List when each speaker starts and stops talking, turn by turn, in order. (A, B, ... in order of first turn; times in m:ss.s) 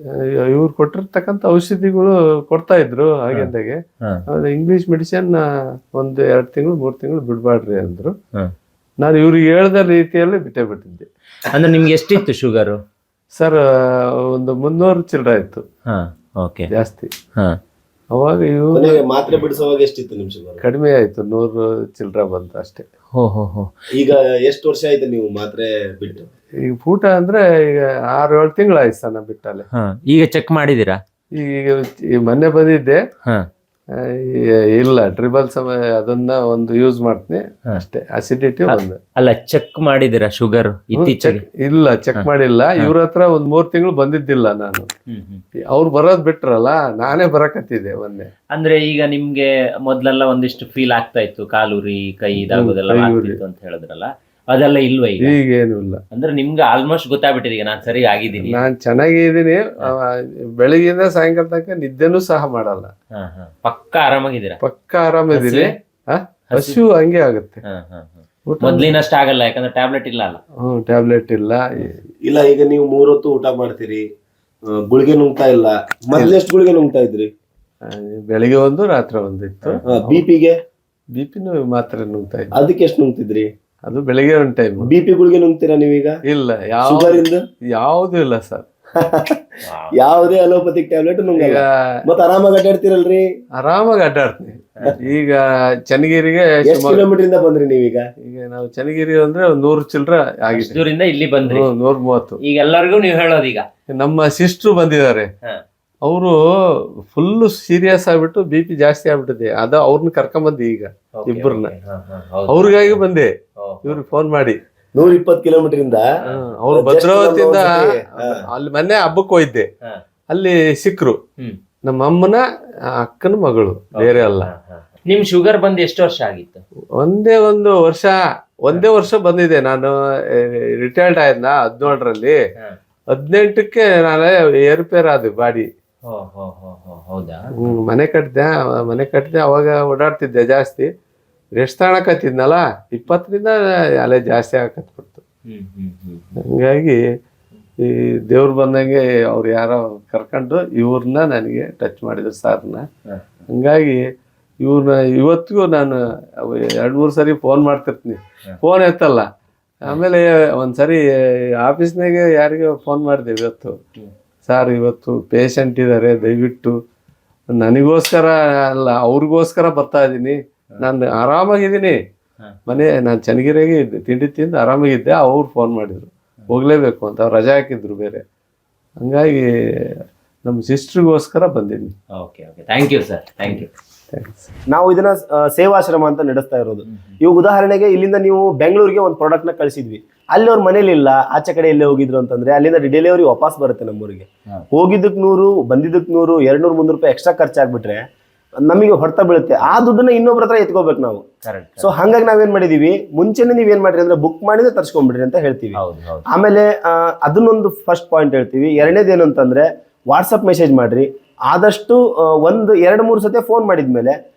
0:00.1-0:08.2 A
0:09.0-0:11.1 A
0:11.5-0:12.8 B
0:13.4-0:15.6 A
0:15.9-0:16.7 B
0:16.7-0:17.1 A
0:18.1-0:19.0 A
0:18.7-0:20.6 C
0:20.6-0:22.9 A
0:23.2-0:23.7 B
0:23.9-0:26.3 C
0:26.6-0:29.7 A
0:29.7-0:31.0 B
0:31.3-0:33.0 A
0:33.9-0:39.0 A
0:38.7-0:41.4 B
0:41.0-0:44.9 A
0:42.2-0:42.9 B
0:45.1-0:45.4 B
0:45.7-0:48.3 A
0:48.5-0:55.4 B
0:52.5-0:53.4 A
0:55.2-0:56.0 A
0:56.1-0:58.6 B
0:58.4-1:02.9 A
1:03.1-1:04.6 B
1:04.6-1:07.6 A
1:05.3-1:05.7 B
1:06.5-1:06.8 B
1:07.6-1:10.4 B
1:08.5-1:08.9 A
1:10.6-1:12.0 A
1:12.2-1:14.1 C
1:14.7-1:17.3 C
1:17.8-1:20.2 A
1:19.8-1:20.6 C
1:21.1-1:22.5 A
1:22.5-1:23.5 C
1:23.8-1:24.9 A
1:24.8-1:26.2 C
1:26.2-1:28.7 A
1:26.8-1:27.4 C
1:29.0-1:33.2 C
1:29.6-1:30.0 B
1:31.4-1:32.0 A
1:33.6-1:37.1 A
1:36.6-1:38.1 C
1:38.2-1:40.8 A
1:40.5-1:41.7 B
1:41.4-1:42.4 A
1:42.4-1:43.7 B
1:43.9-1:45.3 A
1:46.0-1:46.4 A
1:47.0-1:51.7 A
1:51.2-1:53.0 B
1:52.5-1:53.3 A
1:53.6-1:54.0 B
1:53.8-1:54.6 A
1:54.9-1:56.1 C
1:56.2-1:56.5 B
1:56.3-1:59.7 A
1:56.7-1:58.5 C
2:00.3-2:01.2 A
2:01.8-2:02.4 A
2:03.0-2:04.5 A
2:04.0-2:06.6 B
2:07.0-2:12.4 A
2:13.1-2:15.7 A
2:16.1-2:17.8 B
2:17.6-2:20.9 A
2:21.6-2:25.2 A
2:25.5-2:26.4 B
2:26.4-2:27.0 A
2:27.8-2:32.9 A
2:33.5-2:34.0 A
2:34.6-2:39.3 A
2:39.8-2:43.8 A
2:44.5-2:46.8 A
2:47.5-2:52.0 A
2:52.7-2:58.2 A
2:59.0-3:02.0 A
3:02.2-3:03.7 B
3:04.1-3:04.5 A
3:04.7-3:18.0 C
3:06.9-3:07.2 B
3:18.6-3:21.2 C
3:21.4-3:21.9 B
3:21.8-3:34.2 C
3:25.8-3:26.3 B